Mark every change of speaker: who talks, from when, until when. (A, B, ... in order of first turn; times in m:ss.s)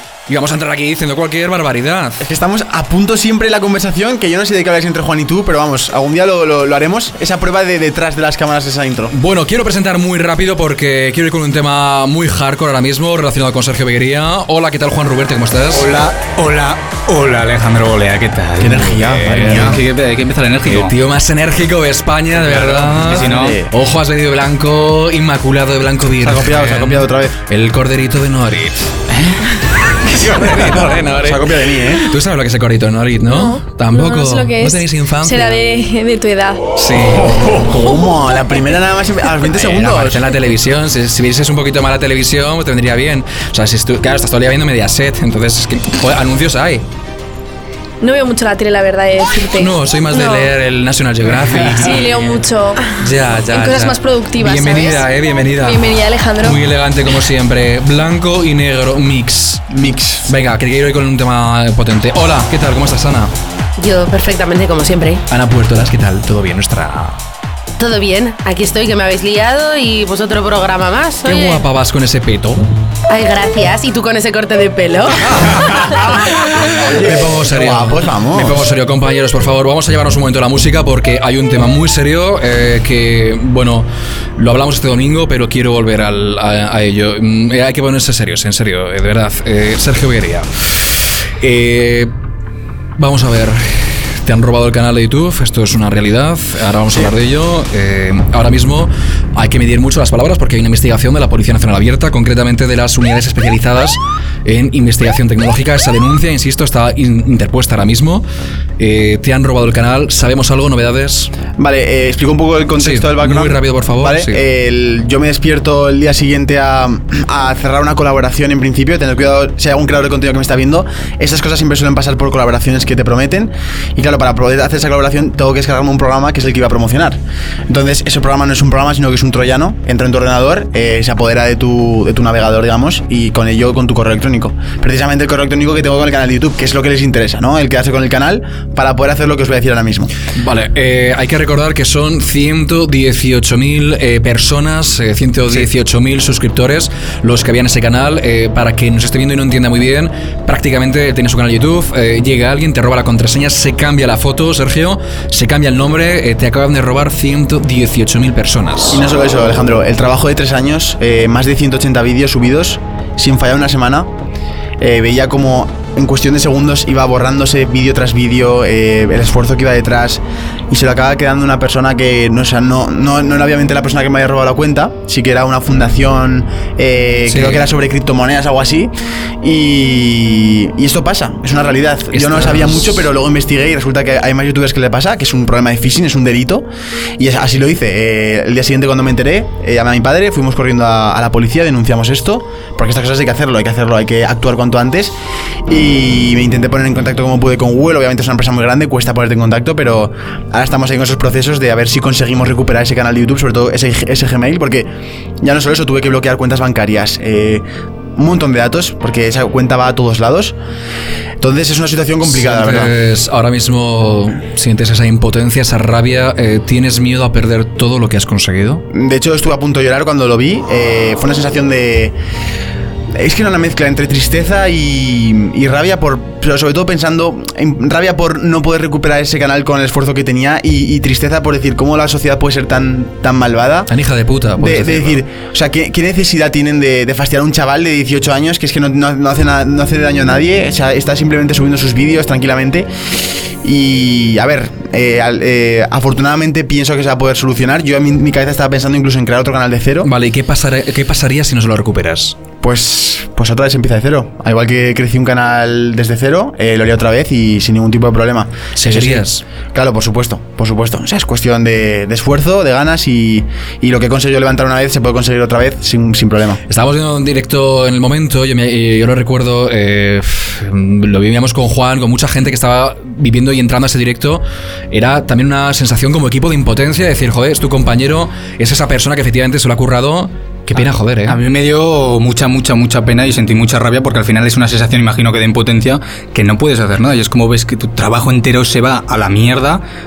0:00.3-0:02.2 A
0:02.2-0:09.1 B
0:09.1-0:15.9 A
0:15.8-0:20.9 C
0:18.6-0:19.8 B
0:18.7-0:19.8 A
0:20.6-0:28.9 A
0:22.4-0:23.6 C
0:23.1-0:23.7 B
0:26.2-0:27.4 B
0:30.1-0:35.6 A
0:31.2-0:32.1 B
0:33.4-0:34.8 D
0:35.3-0:36.6 D
0:36.7-0:37.4 A
0:37.2-0:40.2 B
0:39.6-0:46.8 A
0:48.0-0:49.6 D
0:49.6-0:52.3 A
0:51.8-0:52.8 D
0:52.9-0:55.8 A
0:53.5-0:54.9 D
0:55.6-0:56.5 D
0:56.4-0:59.6 A
0:59.7-1:00.2 B
1:00.2-1:03.3 A
1:03.8-1:05.2 E
1:05.3-1:07.2 A
1:07.8-1:11.6 E
1:11.2-1:12.6 A
1:13.1-1:16.0 E
1:16.8-1:18.6 B
1:16.9-1:30.5 A
1:31.4-1:32.1 A
1:33.0-1:48.2 A
1:48.8-1:51.3 A
1:51.6-2:20.1 B
1:52.8-1:54.4 A
2:20.4-2:39.0 A
2:38.9-2:44.1 B
2:44.8-3:06.6 B
2:57.3-2:57.6 A
3:02.1-3:03.0 A
3:07.2-3:15.1 B
3:15.7-3:24.9 B
3:25.4-3:27.6 B
3:28.2-3:30.5 B
3:31.4-3:32.9 B
3:32.2-3:38.8 A
3:38.9-3:42.1 B
3:43.2-3:53.9 B
3:53.9-3:55.2 A
3:54.6-4:02.9 B
4:03.6-4:10.1 B
4:10.0-4:12.4 A
4:12.6-4:26.6 B
4:18.8-4:19.4 A
4:26.7-4:41.4 A
4:40.7-4:49.8 C